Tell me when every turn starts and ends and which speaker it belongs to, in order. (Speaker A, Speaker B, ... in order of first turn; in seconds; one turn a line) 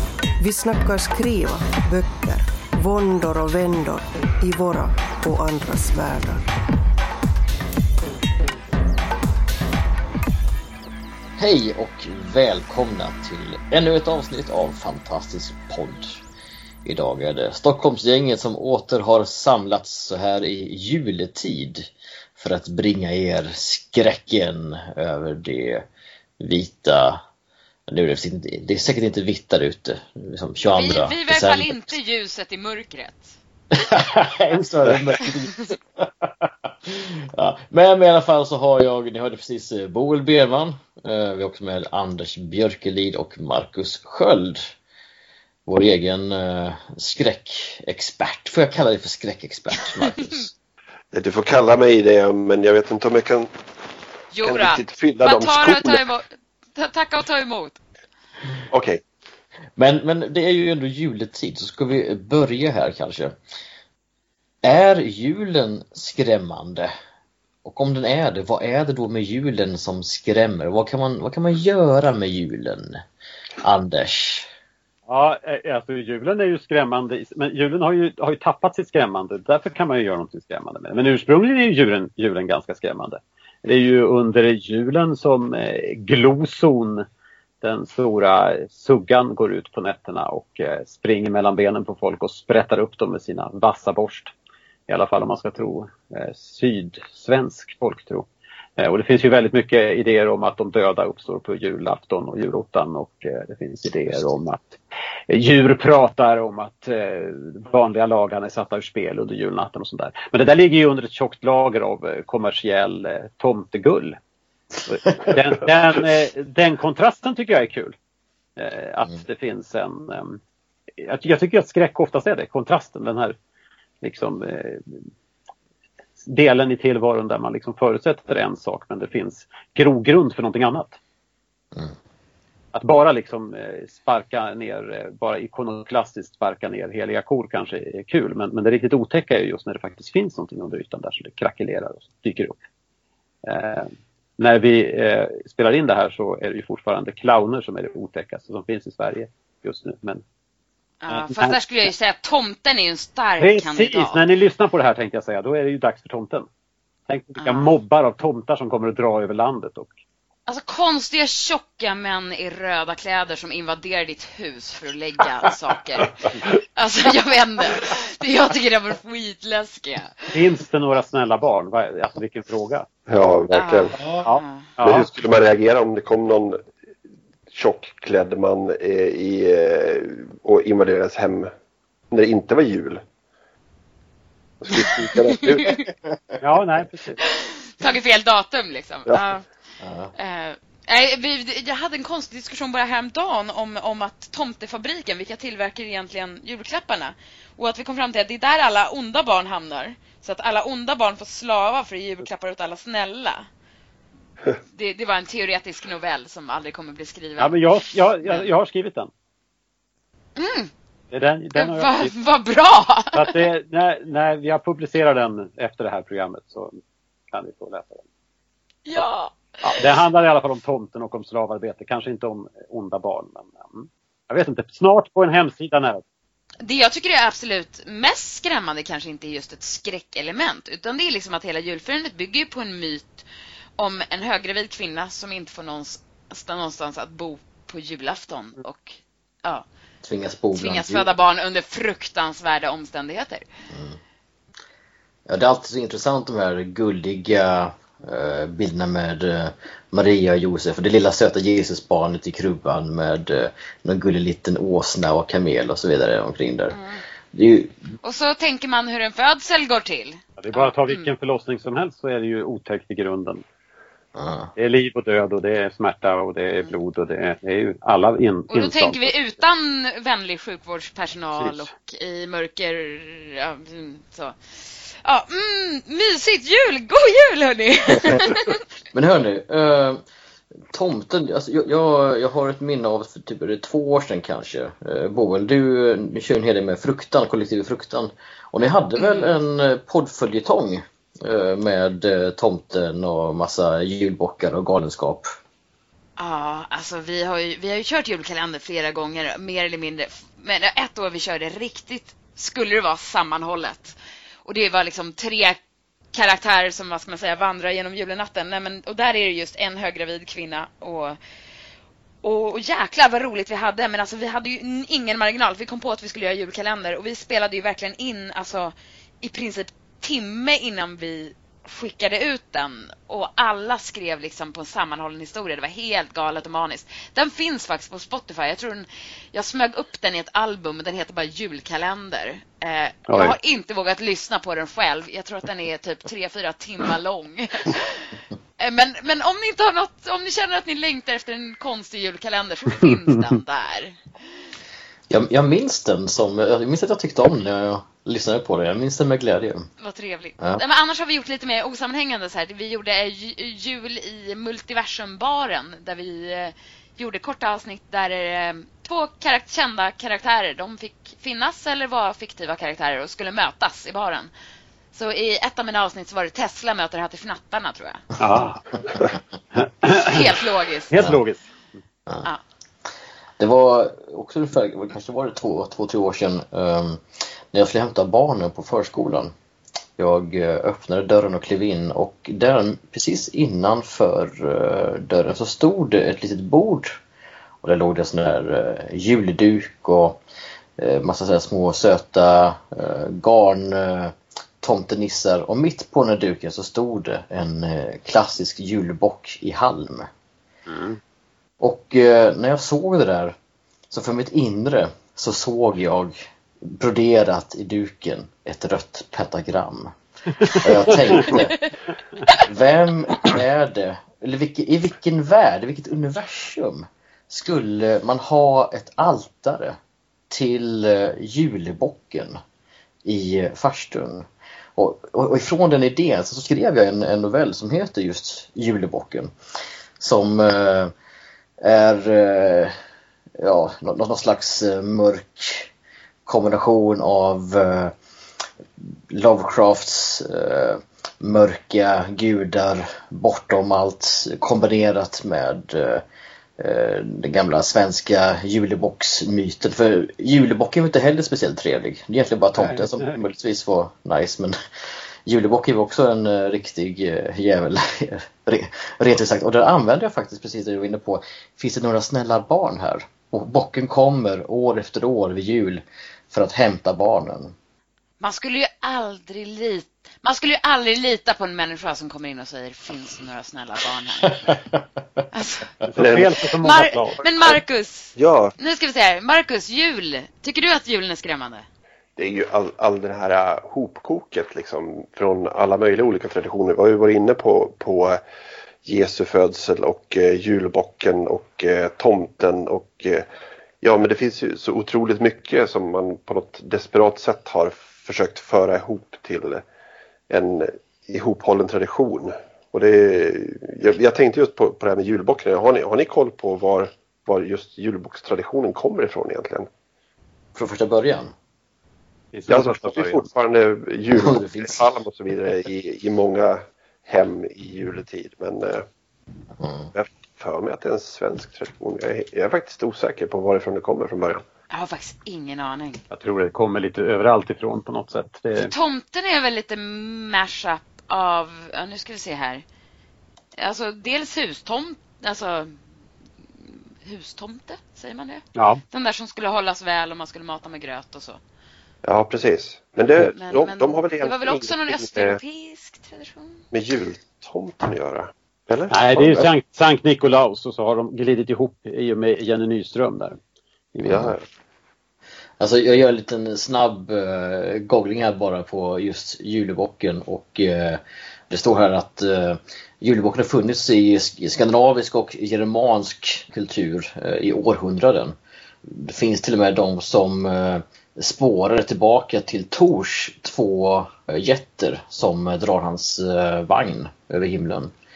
Speaker A: 0.4-6.5
Speaker B: 11.4-16.2
Speaker B: 16.9-25.9
Speaker B: 26.4-27.2
Speaker B: 27.9-31.9
Speaker C: 30.7-33.4
Speaker B: 33.7-44.7
Speaker B: 45.7-50.5
Speaker D: 51.1-53.5
Speaker C: 54.3-57.8
Speaker D: 54.4-56.0
Speaker D: 58.7-59.0
Speaker B: 59.8-63.4
Speaker B: 64.6-66.9
Speaker B: 67.7-73.0
Speaker B: 73.6-74.5
Speaker E: 75.1-87.1
Speaker E: 87.6-94.3
Speaker E: 94.9-98.3
Speaker E: 98.8-104.8
Speaker E: 105.3-114.2
Speaker E: 114.8-118.0
Speaker E: 118.6-120.4
Speaker E: 121.0-123.3
Speaker E: 124.0-125.0
Speaker E: 126.3-131.0
Speaker E: 132.7-142.6
Speaker E: 143.5-150.2
Speaker C: 151.0-154.2
Speaker E: 151.1-151.6
Speaker E: 153.4-156.5
Speaker E: 157.1-159.9
Speaker C: 157.4-157.7
Speaker C: 160.5-170.3
Speaker E: 170.3-172.9
Speaker D: 173.1-174.0
Speaker C: 173.5-174.7
Speaker E: 174.2-175.1
Speaker D: 174.8-176.6
Speaker D: 177.5-181.5
Speaker D: 182.1-183.0
Speaker D: 184.6-185.8
Speaker C: 185.3-185.8
Speaker E: 186.4-187.2
Speaker C: 187.2-189.4
Speaker B: 189.8-190.1
Speaker C: 190.2-203.5
Speaker C: 204.6-207.6
Speaker E: 207.4-209.1
Speaker C: 208.2-208.5
Speaker C: 210.4-210.7
Speaker E: 211.1-212.1
Speaker C: 211.6-213.3
Speaker E: 213.1-216.8
Speaker E: 217.3-218.0
Speaker C: 218.9-219.9
Speaker E: 219.6-226.0
Speaker C: 226.6-233.2
Speaker C: 233.8-239.7
Speaker B: 240.0-241.1
Speaker C: 240.5-243.5
Speaker B: 243.7-244.0
Speaker B: 245.3-256.8
Speaker C: 256.7-257.0
Speaker B: 257.3-257.8
Speaker C: 258.0-261.1
Speaker E: 260.4-263.4
Speaker B: 264.1-264.5
Speaker E: 264.6-269.1
Speaker C: 268.5-278.6
Speaker E: 271.4-271.6
Speaker B: 278.9-280.0
Speaker B: 280.7-295.3
Speaker C: 289.0-289.4
Speaker C: 296.2-305.6
Speaker C: 306.1-311.2
Speaker C: 312.2-338.1
Speaker E: 333.1-333.4
Speaker C: 338.6-344.0
Speaker B: 345.1-349.7
Speaker C: 349.8-364.3
Speaker C: 364.9-368.0
Speaker E: 368.2-368.6
Speaker E: 369.6-370.3
Speaker C: 369.9-371.0
Speaker E: 370.9-371.4
Speaker B: 373.4-379.3
Speaker B: 380.0-387.0
Speaker B: 387.6-390.2
Speaker B: 390.8-400.1
Speaker E: 400.7-401.0
Speaker B: 401.6-403.4
Speaker B: 403.9-411.6
Speaker B: 412.4-419.8
Speaker B: 420.3-422.4
Speaker B: 423.1-429.3
Speaker B: 430.0-430.9
Speaker B: 431.6-432.7
Speaker B: 433.4-435.7
Speaker B: 436.3-437.9
Speaker B: 438.8-446.0
Speaker B: 446.6-454.6
Speaker B: 455.3-467.6
Speaker C: 468.2-474.4
Speaker B: 474.5-474.8
Speaker C: 475.3-475.7
Speaker E: 475.9-477.2
Speaker D: 476.0-476.3
Speaker C: 476.6-481.6
Speaker D: 478.2-478.5
Speaker D: 482.2-488.2
Speaker D: 488.9-493.3
Speaker D: 493.8-499.6
Speaker D: 500.3-509.7
Speaker B: 510.6-511.3
Speaker E: 512.3-513.3
Speaker D: 512.5-518.9
Speaker B: 514.1-514.9
Speaker B: 519.6-519.9
Speaker D: 519.9-524.4
Speaker C: 524.7-526.0
Speaker E: 526.1-528.7
Speaker C: 528.6-532.6
Speaker C: 533.6-535.8
Speaker C: 536.6-541.4
Speaker E: 538.6-538.8
Speaker D: 542.0-545.4
Speaker C: 543.2-546.6
Speaker D: 546.7-549.5
Speaker E: 548.9-553.4
Speaker E: 553.9-554.3
Speaker B: 554.1-554.3
Speaker D: 554.1-554.4
Speaker B: 555.6-577.9